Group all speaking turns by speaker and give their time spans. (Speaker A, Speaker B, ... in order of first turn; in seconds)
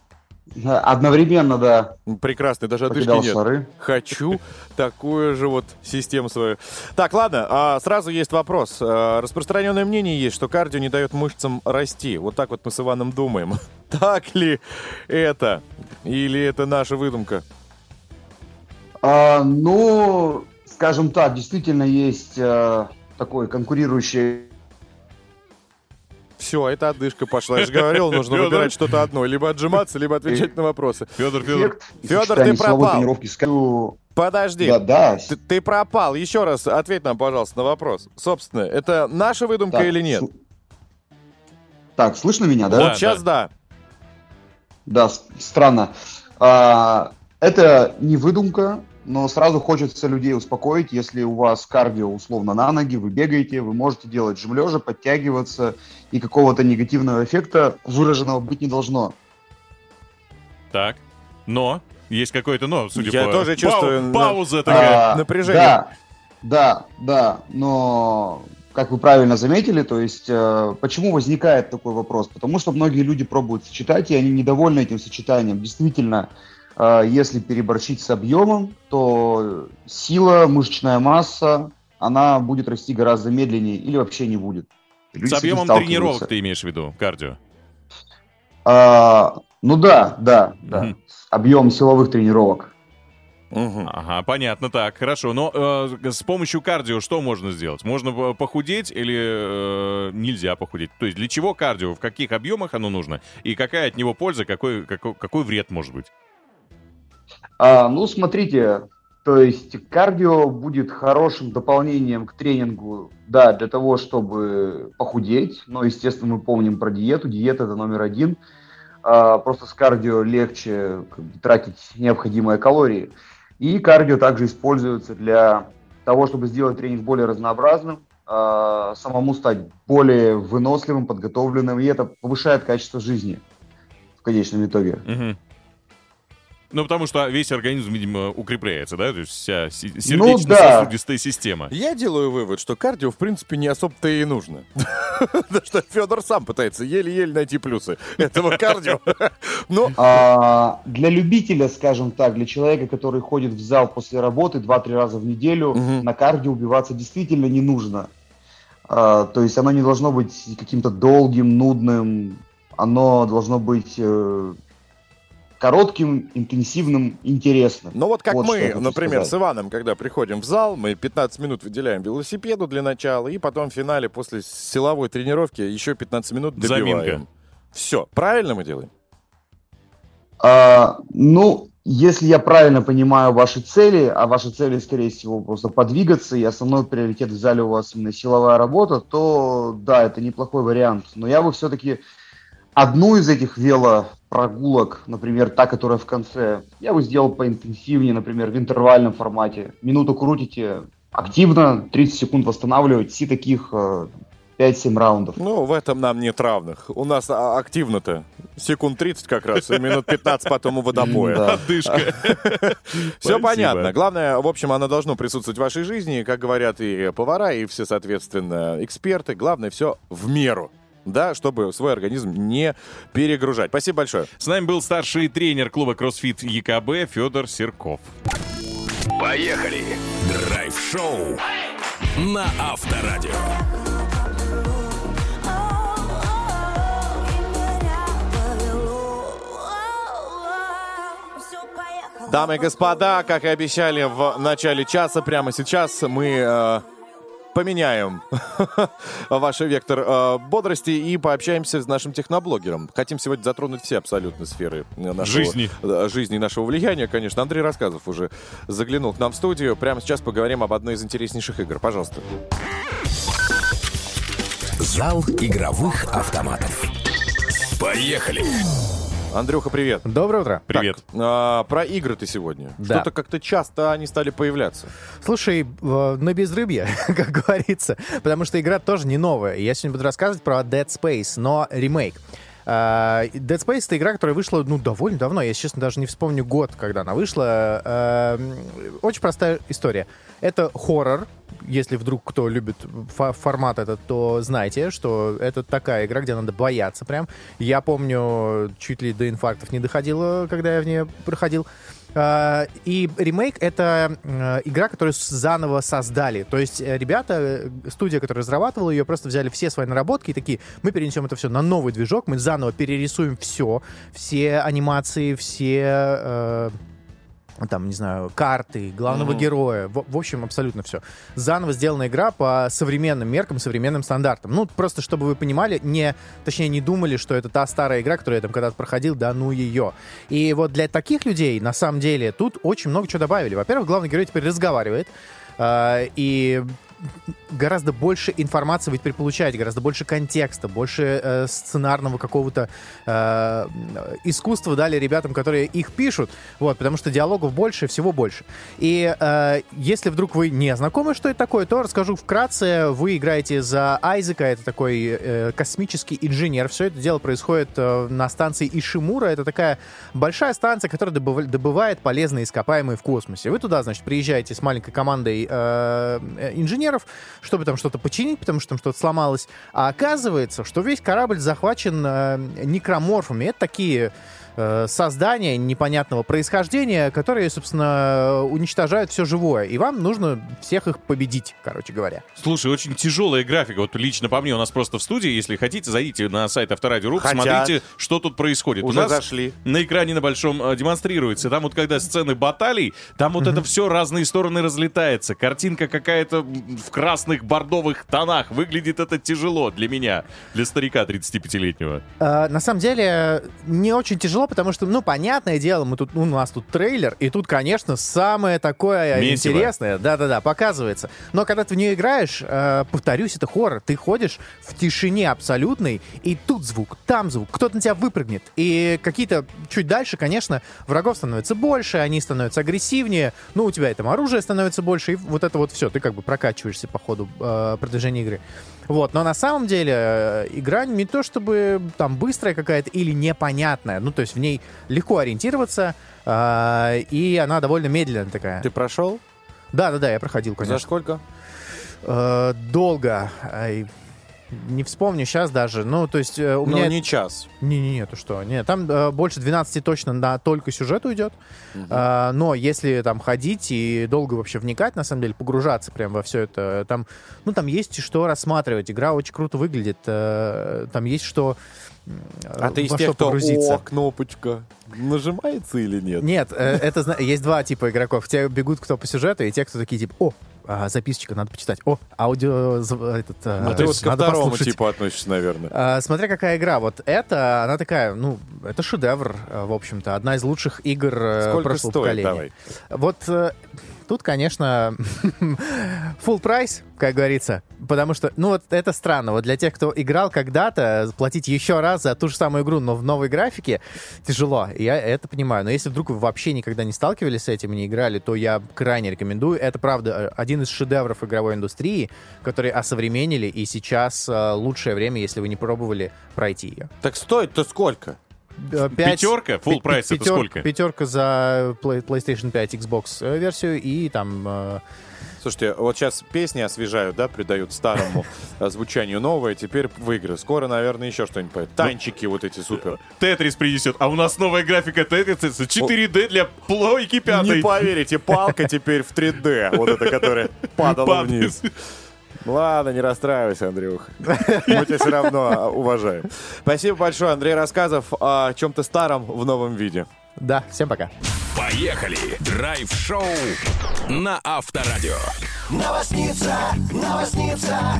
Speaker A: 0.6-2.0, 2.9-3.7, 19.0-24.5, 30.3-30.5, 31.4-34.0, 34.6-35.3, 39.7-40.3, 42.0-43.0, 44.9-59.1, 64.7-65.9, 66.4-86.3, 88.7-92.7, 107.6-118.4, 119.0-133.4, 134.2-135.0, 140.1-140.9, 150.0-158.1, 158.9-164.6, 165.6-169.3, 180.4-192.0, 192.8-205.4, 210.9-211.6
Speaker B: 2.1-17.4, 26.4-31.1, 32.0-33.1, 34.1-40.3, 42.7-43.5, 63.0-65.8, 93.5-93.9, 141.7-150.0, 155.8-156.1, 167.9-178.9, 205.4-224.3, 242.3-246.8, 247.5-262.3, 269.3-270.1, 270.7-274.9, 319.1-319.5, 387.2-387.8, 388.8-389.5, 438.6-439.2, 440.6-441.2, 446.6-447.5, 451.8-452.1, 462.6-466.3, 473.6-475.7, 481.4-482.5, 507.0-508.2, 515.4-523.0, 527.3-531.6, 532.4-540.1
Speaker C: 27.6-28.8, 31.2-31.7, 42.7-43.2, 60.7-65.0, 85.2-87.4, 93.8-106.1, 135.1-135.4, 136.7-141.7, 176.6-177.2, 209.6-210.0, 211.1-213.9, 224.4-228.1, 255.2-255.7, 270.7-271.0, 382.4-402.0, 409.1-409.7, 508.8-510.7, 523.0-527.9, 529.8-531.7
Speaker D: 229.2-231.4, 232.2-233.5, 264.8-266.9, 267.8-268.6, 541.5-545.3
Speaker E: 270.1-270.7, 272.8-273.1, 275.2-316.8, 317.6-336.8, 337.5-382.2, 402.2-438.7, 439.7-440.9, 442.0-443.9, 444.5-447.0, 447.6-451.4, 451.9-463.8, 466.2-474.8, 475.7-506.9, 508.6-514.8, 540.4-541.1